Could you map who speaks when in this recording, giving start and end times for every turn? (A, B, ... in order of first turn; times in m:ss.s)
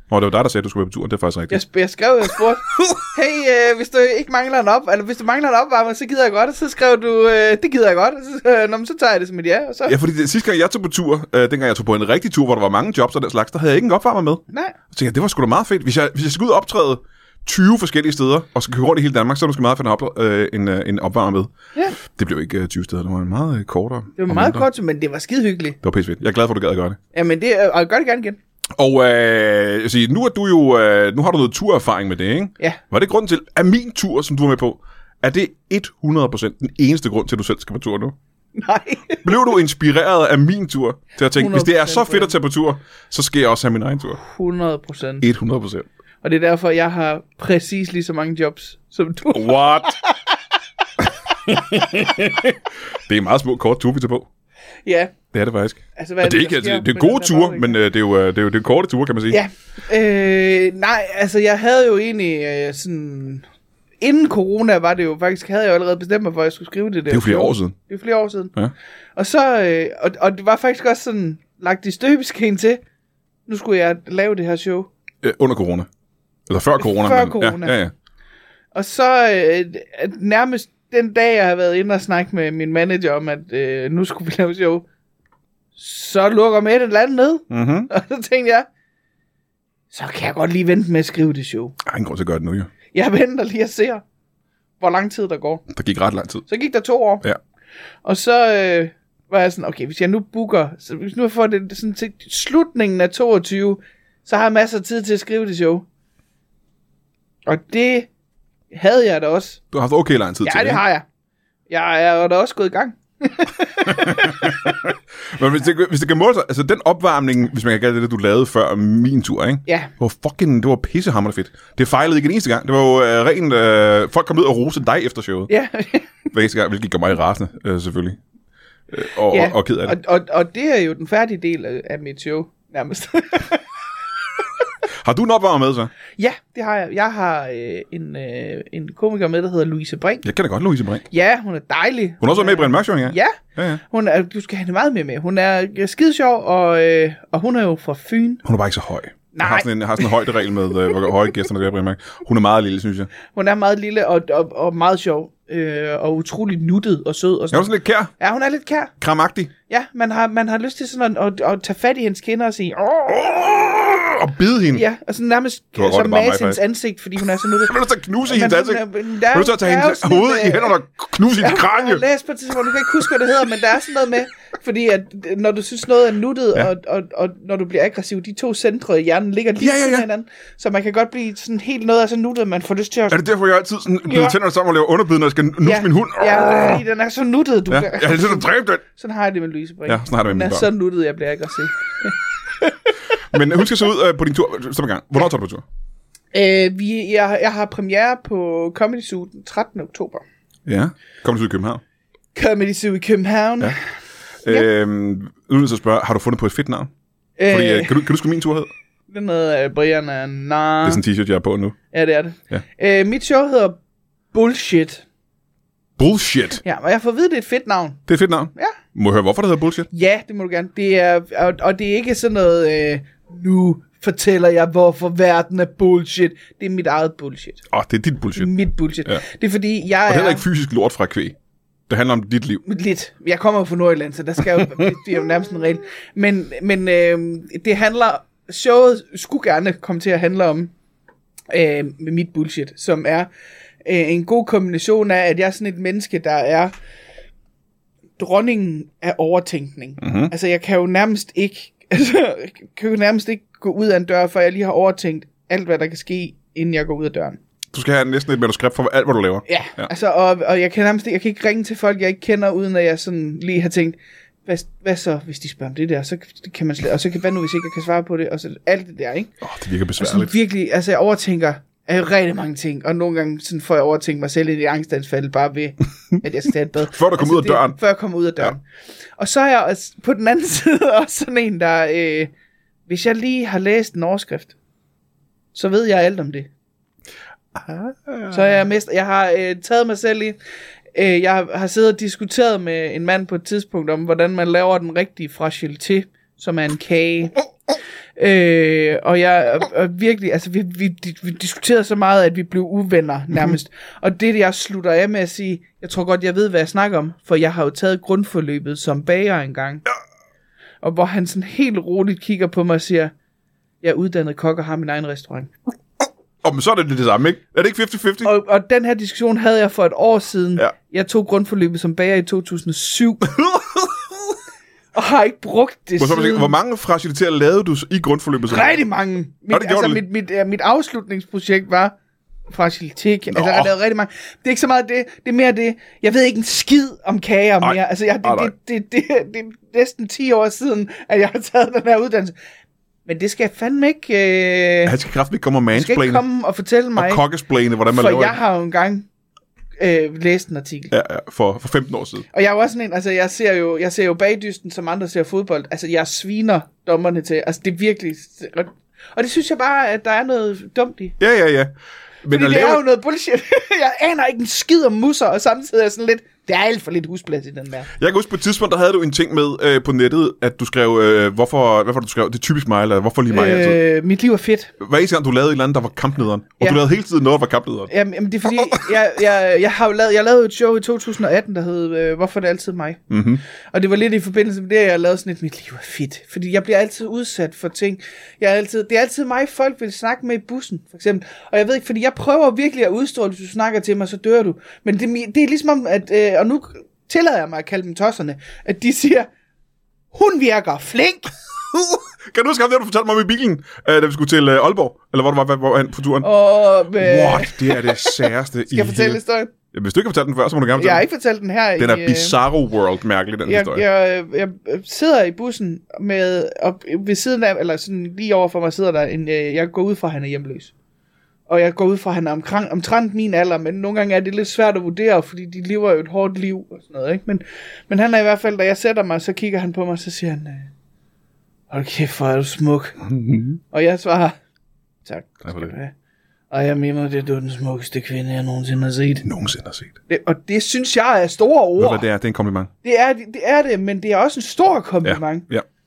0:00.1-0:01.6 A
0:01.5-0:10.0 B
0:09.9-0:24.7 A
0:14.5-0:14.8 B
0:24.2-0:25.8 B
0:25.8-0:27.0 A
0:27.1-0:28.4 B
0:28.8-0:38.2 A
0:38.6-0:39.6 B
0:39.2-0:44.2 A
0:41.4-0:42.3 B
0:44.2-0:45.3 B
0:45.2-0:45.9 A
0:46.2-0:50.4 B
0:49.3-0:50.0 A
0:51.4-0:54.3 A
0:54.8-0:55.1 B
0:55.3-0:59.4 A
0:56.0-0:57.8 B
0:59.3-1:03.5 B
1:04.0-1:08.6 B
1:07.1-1:07.8 A
1:09.2-1:12.8 B
1:13.5-1:14.9 B
1:15.2-1:15.9 A
1:16.5-1:17.9 A
1:16.8-1:17.8 B
1:18.7-1:24.9 B
1:25.8-1:28.7 B
1:27.5-1:27.9 A
1:29.9-1:31.8 B
1:31.8-1:32.7 A
1:32.9-1:34.0 B
1:34.8-1:35.7 B
1:35.7-1:36.5 A
1:36.5-1:37.2 B
1:38.0-1:45.9 B
1:47.4-1:48.1 B
1:48.7-1:49.6 B
1:49.7-1:50.8 A
1:50.4-1:51.0 B
1:51.7-1:54.8 B
1:53.8-2:05.5 A
1:59.7-1:59.9 B
2:05.5-2:06.1 B
2:06.3-2:08.2 A
2:08.9-2:10.0 A
2:09.3-2:13.7 B
2:15.0-2:15.9 A
2:16.2-2:20.2 B
2:20.2-2:21.1 A
2:21.1-2:28.4 B
2:22.2-2:23.8 A
2:28.4-2:33.1 A
2:29.3-2:30.1 B
2:33.3-2:38.9 B
2:37.5-2:38.1 A
2:39.0-2:39.5 A
2:39.7-2:43.3 B
2:43.2-2:44.8 A
2:44.7-2:50.8 B
2:45.8-2:46.6 A
2:47.6-2:52.0 A
2:51.3-3:03.2 B
2:59.6-3:00.1 A
3:03.1-3:06.8 A
3:04.0-3:04.4 B
3:05.6-3:13.4 B
3:07.7-3:08.8 A
3:09.9-3:10.7 A
3:13.3-3:15.6 A
3:16.3-3:20.2 B
3:20.7-3:21.8 A
3:22.4-3:23.8 B
3:24.4-3:26.9 A
3:27.4-3:28.1 B
3:27.5-3:28.7 A
3:29.1-3:31.0 B
3:30.8-3:31.8 A
3:31.9-3:33.8 B
3:34.3-3:35.0 B
3:36.0-3:36.6 A
3:36.6-3:38.8 B
3:38.1-3:39.9 A
3:39.9-3:47.7 B
3:47.7-3:48.5 A
3:48.3-3:50.4 B
3:50.0-3:51.4 A
3:51.9-3:52.6 A
3:52.7-4:00.7 B
4:01.5-4:03.3 B
4:03.8-4:06.7 B
4:08.2-4:17.4 B
4:10.0-4:10.3 A
4:17.7-4:19.9 A
4:19.5-4:29.3 B
4:29.4-4:30.3 A
4:30.0-4:38.6 B
4:36.8-4:37.8 A
4:39.2-4:42.3 B
4:42.9-4:44.5 B
4:45.5-4:46.5 B
4:47.6-4:48.6 A
4:48.3-4:50.4 B
4:50.9-4:57.4 B
4:58.2-5:09.8 B
5:10.8-5:13.1 B
5:13.8-5:15.5 B
5:16.4-5:18.3 A
5:18.2-5:23.2 B
5:23.3-5:24.1 A
5:24.9-5:26.5 B
5:26.0-5:28.8 A
5:28.5-5:32.0 B
5:29.5-5:30.0 A
5:32.5-5:42.4 B
5:33.3-5:33.7 A
5:37.6-5:38.5 A
5:43.1-5:45.0 B
5:44.8-5:46.2 A
5:45.7-5:47.2 B
5:47.0-5:48.4 A
5:47.9-5:49.1 B
5:49.8-5:50.9 B
5:50.9-5:52.2 A
5:52.3-6:01.2 B
6:01.2-6:02.8 A
6:02.3-6:07.9 B
6:08.0-6:13.8 A
6:13.3-6:14.7 B
6:14.8-6:17.9 A
6:17.9-6:39.3 B
6:18.5-6:18.9 A
6:23.1-6:23.4 A
6:40.1-6:41.3 B
6:41.7-6:46.3 A
6:46.2-6:49.5 B
6:46.8-6:49.2 A
6:49.7-6:51.0 A
6:50.8-6:52.4 B
6:51.8-6:53.8 A
6:53.5-7:00.7 B
7:01.5-7:10.7 B
7:11.7-7:13.0 B
7:13.0-7:13.6 A
7:13.7-7:14.4 B
7:15.0-7:15.9 B
7:15.4-7:15.7 A
7:16.5-7:19.3 B
7:19.2-7:20.0 A
7:20.1-7:22.1 B
7:21.8-7:22.7 A
7:22.8-7:25.5 B
7:25.0-7:25.6 A